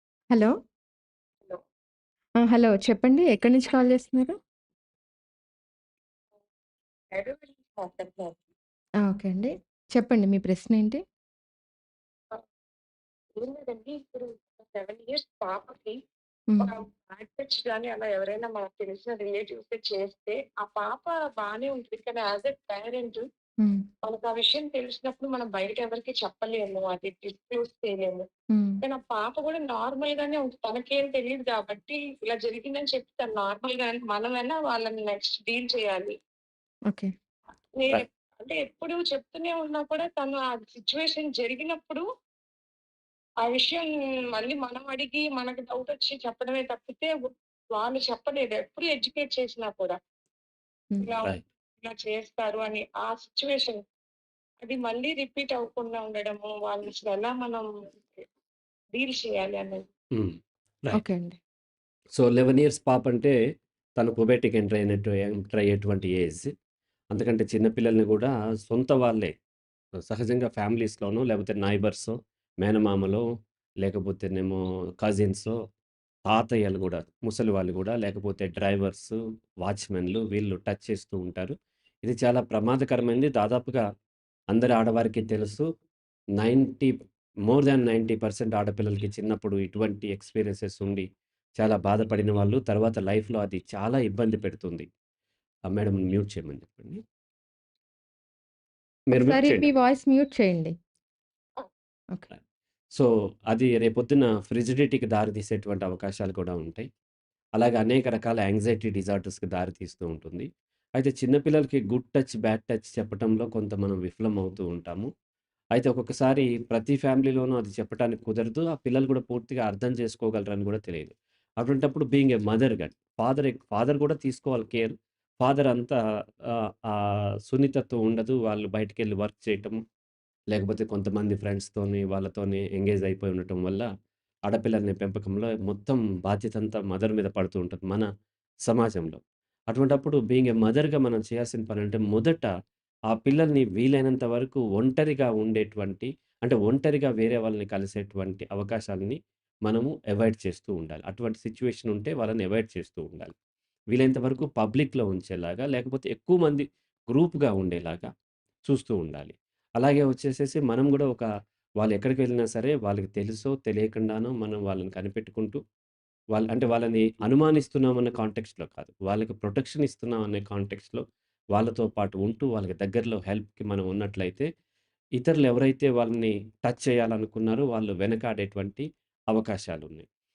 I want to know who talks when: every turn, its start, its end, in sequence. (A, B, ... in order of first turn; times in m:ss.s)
0:02.4-0:04.4 A
0:07.1-0:08.4 B
0:09.0-0:11.0 A
0:13.4-0:16.0 B
0:16.6-0:23.2 B
0:24.0-0:28.2 B
0:28.5-0:28.8 A
0:28.8-0:36.1 B
0:37.8-0:42.0 B
0:43.4-0:47.2 B
0:47.7-0:50.0 B
0:51.0-0:53.8 B
0:54.6-0:58.2 B
0:58.9-0:59.9 B
1:00.2-1:01.0 C
1:00.9-1:01.4 A
1:02.2-1:03.3 C
1:04.0-1:06.5 C
1:07.1-1:09.3 C
1:10.0-1:13.2 C
1:13.8-1:15.5 C
1:16.3-1:23.8 C
1:24.5-1:25.6 C
1:26.4-1:26.9 C
1:27.5-1:31.0 C
1:31.6-1:34.8 C
1:35.7-1:37.0 C
1:39.1-1:39.7 C
1:39.2-1:40.7 A
1:42.9-1:46.8 C
1:47.6-1:50.5 C
1:51.0-1:55.1 C
1:55.7-2:05.9 C
2:06.9-2:09.8 C
2:10.5-2:13.8 C
2:14.5-2:18.1 C
2:18.7-2:19.2 C
2:19.7-2:22.5 C
2:23.1-2:33.3 C
2:33.9-2:38.1 C
2:38.7-2:41.3 C
2:41.8-2:45.6 C
2:46.3-2:51.0 C
2:51.5-2:54.5 C
2:55.2-3:00.0 C